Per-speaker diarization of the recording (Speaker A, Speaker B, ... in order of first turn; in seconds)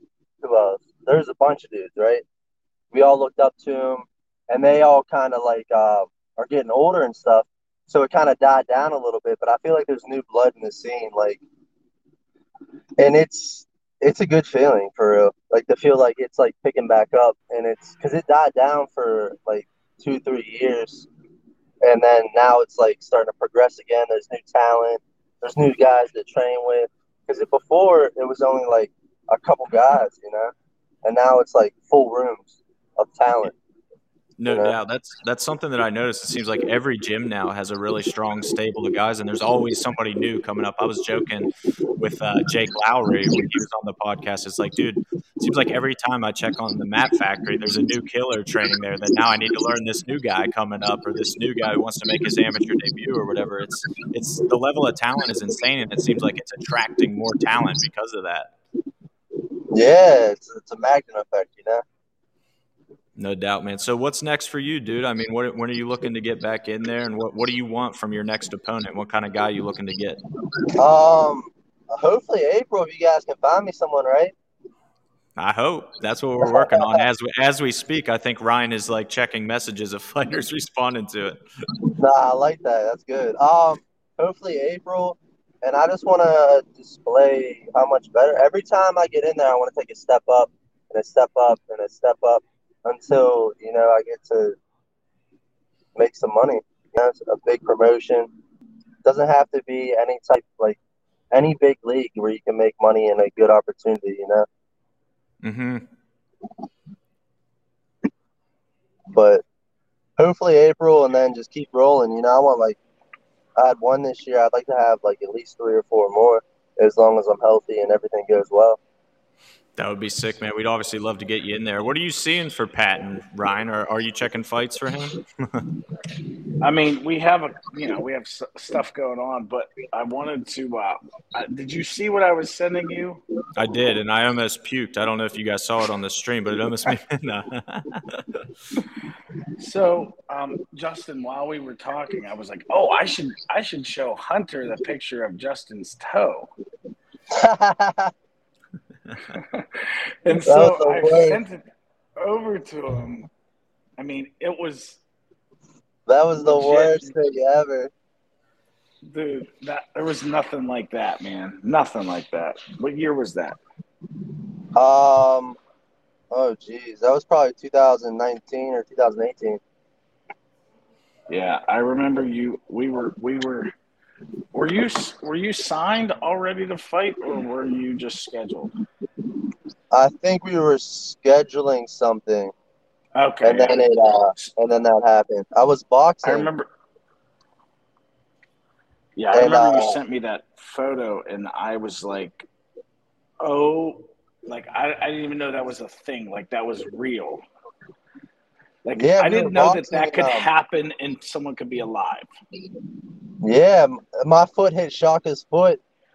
Speaker A: 0.4-2.2, 2.9-11.4, 13.0-21.1, 21.8-30.5, 31.0-33.5, 59.7-61.8, 70.8-74.3, 76.4-77.0, 82.0-94.5, 96.0-98.3, 99.0-100.8, 101.3-104.5, 109.1-109.4, 110.2-112.8, 113.6-118.8, 147.3-148.1, 150.4-151.4, 156.1-157.9, 164.8-165.6, 166.3-169.6, 179.9-182.5, 183.4-186.5, 189.3-190.0, 198.9-200.4, 203.4-205.8
Speaker B: 34.4-58.5, 63.2-70.2, 75.4-81.4, 105.4-105.8, 119.8-125.6, 133.6-138.4
Speaker C: 126.6-133.2, 139.6-146.5, 149.3-151.6, 152.2-153.3, 154.0-155.0, 156.4-157.1, 159.0-163.6, 171.3-173.7, 174.5-178.7, 183.2-184.5, 186.2-186.7, 189.2-192.4, 193.4-197.4, 198.8-202.3